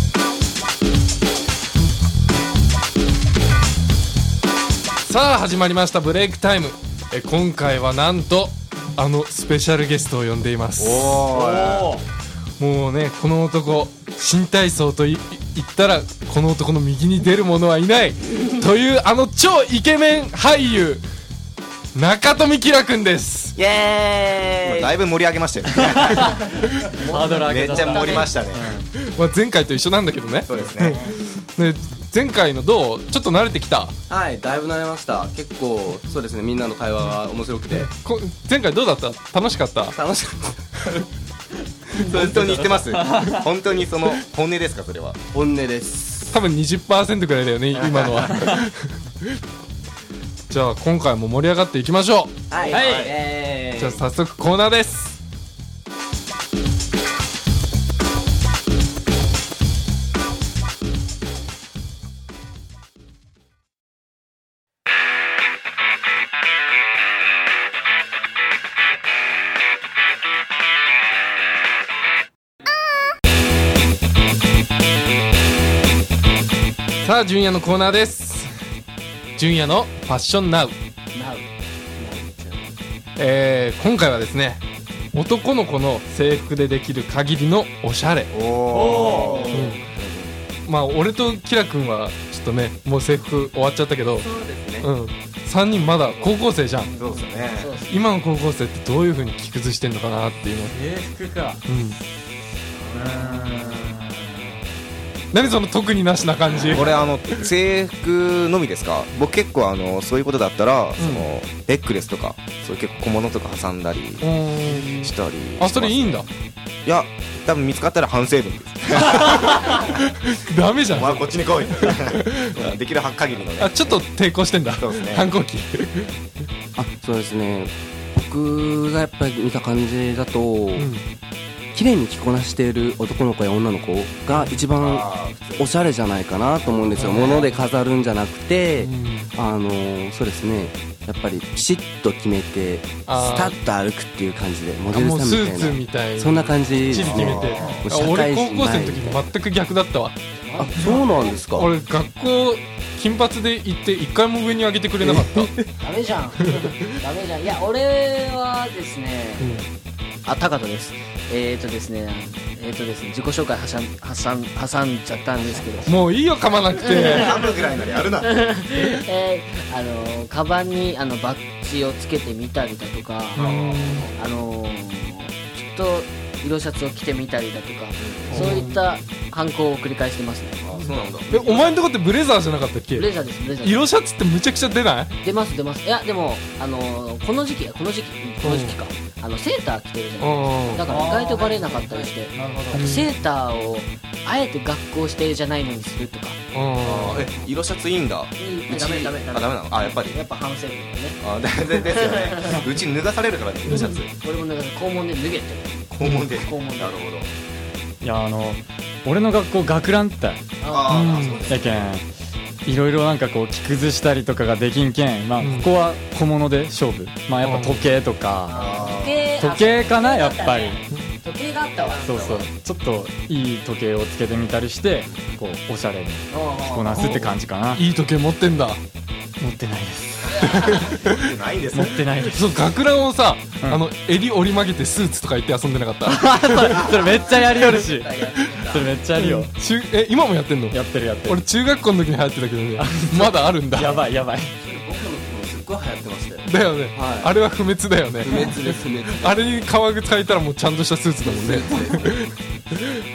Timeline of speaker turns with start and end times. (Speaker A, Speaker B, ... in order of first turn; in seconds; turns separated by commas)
Speaker A: 5.0-11.3, Speaker B: 10.8-12.0, Speaker C: 11.3-12.0, Speaker A: 12.6-21.0, Speaker A: 21.9-23.6, Speaker B: 23.6-26.4, Speaker D: 24.6-24.9, Speaker C: 25.8-28.9, Speaker E: 27.0-28.3, Speaker B: 27.1-28.7, Speaker A: 29.1-34.0, Speaker B: 30.4-31.0, Speaker C: 30.6-31.1, Speaker D: 34.1-37.9, Speaker A: 37.9-40.0, Speaker D: 39.8-40.7, Speaker B: 42.0-45.2, Speaker C: 42.1-43.5, Speaker D: 42.3-42.8, Speaker D: 45.3-46.4, Speaker A: 46.3-49.4, Speaker B: 47.8-48.2, Speaker A: 50.5-52.5, Speaker D: 52.5-54.0, Speaker C: 52.7-53.1, Speaker B: 52.7-53.2, Speaker A: 53.8-55.2, Speaker A: 77.0-78.5, Speaker A: 79.4-80.8, Speaker E: 81.1-82.7, Speaker A: 83.2-84.6, Speaker A: 85.1-88.3, Speaker B: 88.3-90.4, Speaker C: 88.9-89.3, Speaker E: 89.0-89.8, Speaker A: 89.5-89.8, Speaker A: 90.7-94.3, Speaker C: 94.3-94.8, Speaker A: 94.8-96.9, Speaker E: 96.8-98.0, Speaker B: 97.0-97.8, Speaker A: 97.9-100.8, Speaker C: 100.7-101.6, Speaker A: 101.7-102.0, Speaker E: 102.7-104.0, Speaker C: 102.9-104.5, Speaker A: 105.3-107.1, Speaker B: 106.7-116.3, Speaker A: 111.0-111.3, Speaker A: 114.2-116.3, Speaker B: 116.8-119.9, Speaker A: 119.0-122.7, Speaker B: 120.9-124.0, Speaker A: 123.6-126.1, Speaker B: 124.7-125.3, Speaker D: 126.8-130.9, Speaker A: 130.8-131.0, Speaker D: 131.7-149.3, Speaker A: 134.3-134.6, Speaker B: 134.8-135.7, Speaker B: 136.9-137.5, Speaker A: 137.0-137.5, Speaker A: 138.8-139.3, Speaker A: 143.1-143.6, Speaker A: 144.9-150.2, Speaker B: 146.9-147.9, Speaker E: 150.4-151.4, Speaker D: 150.6-151.7, Speaker A: 150.8-155.7, Speaker D: 155.0-155.5, Speaker E: 155.8-159.6, Speaker A: 159.4-159.7, Speaker E: 160.2-166.1, Speaker A: 165.9-167.3, Speaker E: 166.8-173.4, Speaker B: 167.1-168.3, Speaker B: 173.3-174.3, Speaker A: 173.4-174.1, Speaker E: 174.1-180.6, Speaker B: 178.0-178.6, Speaker A: 178.3-178.8, Speaker B: 180.6-181.5, Speaker A: 181.3-183.1, Speaker E: 181.3-181.7, Speaker E: 182.9-183.9, Speaker A: 183.6-185.2, Speaker E: 185.2-196.4, Speaker A: 188.4-188.8, Speaker A: 190.2-190.8, Speaker C: 190.9-191.5, Speaker D: 191.5-192.1, Speaker C: 192.3-192.8, Speaker A: 192.7-193.1, Speaker A: 196.5-197.3, Speaker B: 196.8-200.2, Speaker E: 198.4-202.7, Speaker B: 201.2-204.1, Speaker E: 203.7-207.0, Speaker A: 203.7-203.9, Speaker B: 205.9-207.3, Speaker C: 208.0-212.1, Speaker E: 210.6-211.6, Speaker B: 210.7-211.9, Speaker A: 210.9-211.5, Speaker C: 212.7-218.6, Speaker A: 215.4-215.7, Speaker A: 217.4-218.0, Speaker E: 218.5-222.3, Speaker B: 218.5-219.3, Speaker C: 219.4-220.8, Speaker B: 221.8-222.5, Speaker C: 222.0-227.8, Speaker B: 225.1-225.4, Speaker E: 226.3-227.2, Speaker A: 226.9-228.8, Speaker C: 229.4-230.9, Speaker E: 230.3-230.8, Speaker A: 230.4-231.2, Speaker B: 231.0-232.0, Speaker C: 231.7-232.5, Speaker A: 232.2-237.8, Speaker C: 236.1-239.5, Speaker D: 236.9-238.9, Speaker A: 238.3-244.0, Speaker C: 240.7-241.4, Speaker C: 242.8-244.5, Speaker D: 244.6-247.3, Speaker A: 246.4-253.0, Speaker D: 248.2-249.6, Speaker D: 251.2-252.3